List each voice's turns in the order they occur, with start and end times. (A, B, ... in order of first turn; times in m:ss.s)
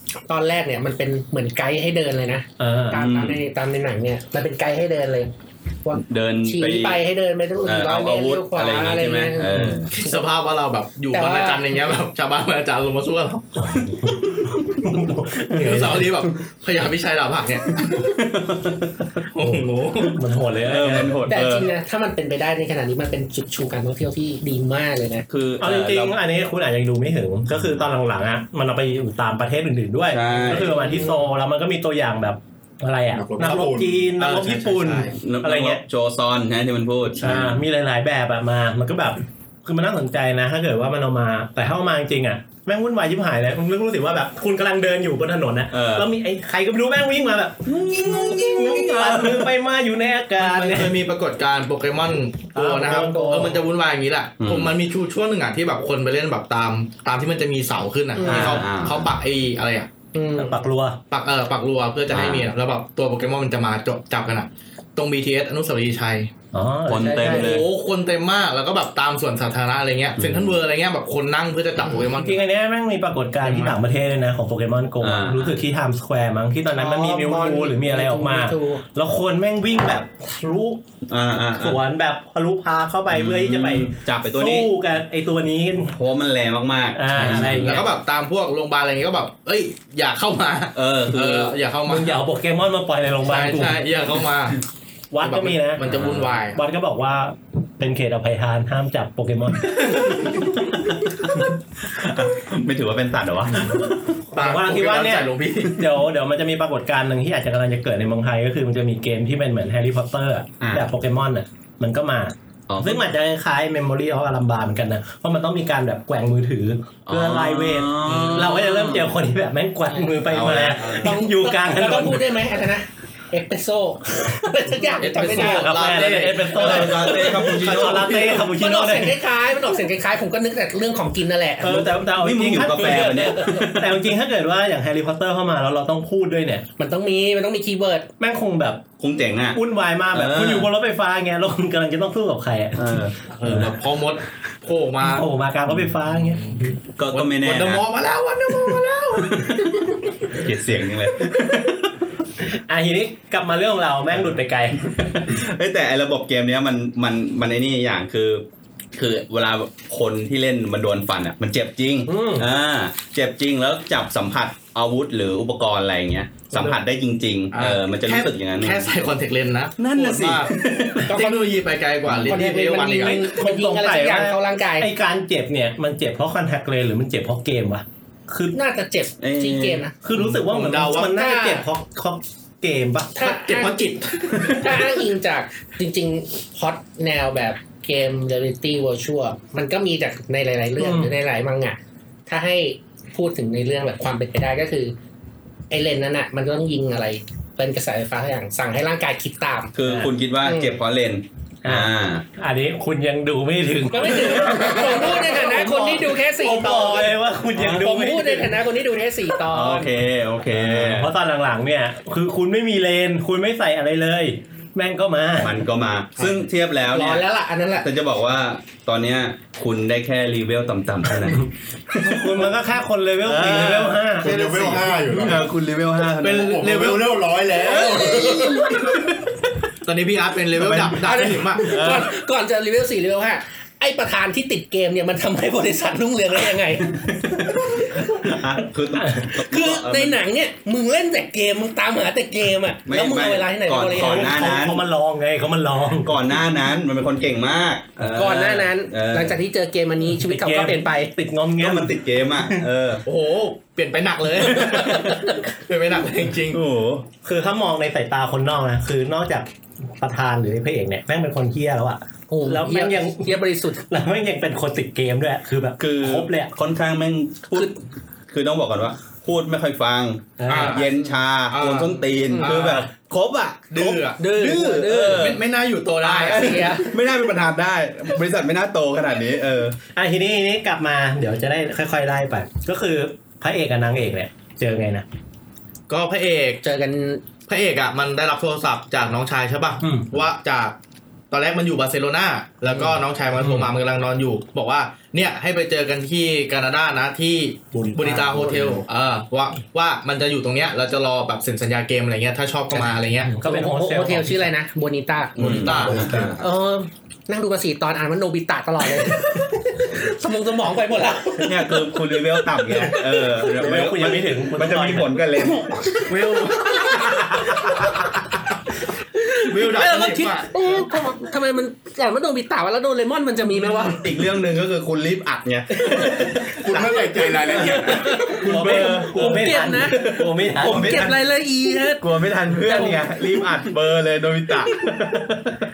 0:00.3-0:05.3 A
0:02.6-0:03.0 B
0:02.9-0:03.4 C
0:05.8-0:10.2 A
0:05.9-0:07.0 C
0:07.6-0:09.9 C
0:09.9-0:14.1 D
0:11.1-0:11.7 A
0:13.6-0:16.3 B
0:15.5-0:18.1 D
0:17.9-0:19.0 C
0:19.3-0:20.2 D
0:19.4-0:21.3 B
0:20.6-0:21.7 C
0:21.3-0:25.3 A
0:25.3-0:26.2 C
0:25.6-0:35.8 B
0:30.1-0:30.9 C
0:33.1-0:34.1 E
0:34.2-0:35.2 D
0:35.2-0:37.6 C
0:37.2-0:50.9 B
0:45.7-0:46.1 C
0:47.6-0:49.5 C
0:50.4-0:59.9 D
0:52.5-0:53.6 B
0:54.4-0:54.7 C
0:58.2-0:58.6 A
0:58.2-0:59.1 C
1:00.1-1:00.6 A
1:00.4-1:01.0 B
1:01.1-1:06.3 D
1:02.1-1:02.5 C
1:06.5-1:07.5 B
1:06.9-1:07.6 C
1:07.0-1:07.6 A
1:07.2-1:12.4 D
1:10.2-1:10.6 C
1:12.0-1:20.8 B
1:13.4-1:13.7 D
1:15.0-1:15.6 C
1:16.7-1:18.8 A
1:21.1-1:21.8 C
1:21.5-1:26.0 B
1:23.1-1:24.7 C
1:25.9-1:27.9 C
1:26.9-1:27.9 B
1:27.2-1:32.2 D
1:30.7-1:31.6 C
1:31.8-1:33.9 B
1:33.2-1:34.6 D
1:35.1-1:35.8 B
1:35.2-1:36.6 D
1:35.8-1:36.3 C
1:36.5-1:41.5 B
1:41.3-1:44.0 C
1:43.7-2:02.3 B
1:44.3-1:45.9 D
1:50.6-1:50.9 C
1:52.7-1:53.0 C
1:57.0-1:59.1 C
1:59.9-2:00.2 A
2:00.3-2:01.2 C
2:00.9-2:05.8 A
2:04.9-2:09.2 B
2:05.0-2:08.4 D
2:06.5-2:08.4 C
2:08.4-2:11.9 A
2:11.6-2:16.7 B
2:12.1-2:14.0 C
2:16.8-2:18.1 A
2:18.2-2:18.8 B
2:19.0-2:19.6 C
2:19.5-2:23.7 B
2:20.1-2:20.7 C
2:22.7-2:23.2 C
2:23.3-2:25.3 D
2:25.0-2:26.7 B
2:26.1-2:29.8 D
2:27.0-2:27.8 C
2:29.3-2:29.8 C
2:30.3-2:31.8 C
2:31.2-2:31.7 B
2:32.4-2:35.4 B
2:35.3-2:38.4 C
2:39.0-2:48.9 C
2:42.0-2:42.5 B
2:46.5-2:46.8 B
2:47.5-2:53.2 D
2:49.8-2:51.1 C
2:51.1-2:51.6 A
2:52.1-2:52.4 C
2:52.3-2:54.9 A
2:53.0-2:58.6 B
2:58.5-2:59.9 A
2:59.2-2:59.9 C
3:00.0-3:03.3 B
3:00.1-3:01.1 D
3:01.0-3:01.6 A
3:03.1-3:03.8 A
3:03.2-3:04.9 D
3:04.4-3:15.0 A
3:10.8-3:11.1 B
3:15.7-3:19.8 A
3:19.7-3:22.2 C
3:19.8-3:20.1 B
3:20.4-3:20.8 A
3:21.6-3:28.6 B
3:23.9-3:27.1 A
3:27.6-3:29.9 A
3:29.4-3:31.1 C
3:30.5-3:35.6 B
3:35.4-3:37.3 C
3:36.9-3:37.9 A
3:37.8-3:42.5 C
3:41.2-3:44.3 B
3:43.2-3:46.7 C
3:44.2-3:45.5 E
3:44.3-3:45.1 D
3:46.2-3:47.2 D
3:46.3-3:48.7 E
3:47.6-3:48.8 A
3:48.8-3:49.3 C
3:49.8-3:51.7 D
3:50.5-3:52.1 C
3:51.0-3:57.0 A
3:57.0-4:00.2 C
3:58.9-3:59.3 B
3:59.4-4:04.4 A
4:02.9-4:04.8 C
4:03.9-4:06.2 B
4:06.0-4:09.4 C
4:08.2-4:11.1 A
4:10.0-4:12.6 B
4:11.6-4:13.0 C
4:13.0-4:16.6 D
4:14.5-4:15.0 C
4:16.5-4:17.1 C
4:17.2-4:26.5 B
4:22.3-4:23.8 A
4:25.8-4:27.8 C
4:28.3-4:35.4 C
4:30.4-4:30.8 B
4:30.5-4:30.8 D
4:31.5-4:32.9 D
4:32.3-4:32.6 A
4:33.7-4:36.7 D
4:34.2-4:35.4 A
4:36.0-4:39.8 C
4:36.0-4:36.9 A
4:40.0-4:45.0 B
4:45.9-4:46.6 D
4:46.6-4:47.2 A
4:47.5-4:50.7 D
4:49.8-4:50.2 B
4:51.3-5:03.4 D
4:53.4-4:53.7 B
4:57.7-4:58.8 E
5:03.2-5:04.5 B
5:03.4-5:13.4 A
5:05.4-5:06.5 C
5:05.4-5:06.3 D
5:11.4-5:17.9 C
5:13.5-5:15.2 B
5:16.0-5:17.1 A
5:16.2-5:17.1 D
5:19.2-5:24.1 A
5:19.4-5:20.5 D
5:23.6-5:31.2 C
5:25.8-5:30.0 A
5:26.5-5:28.2 E
5:28.3-5:31.0 B
5:30.6-5:33.4 A
5:31.9-5:35.5 C
5:34.9-5:35.5 B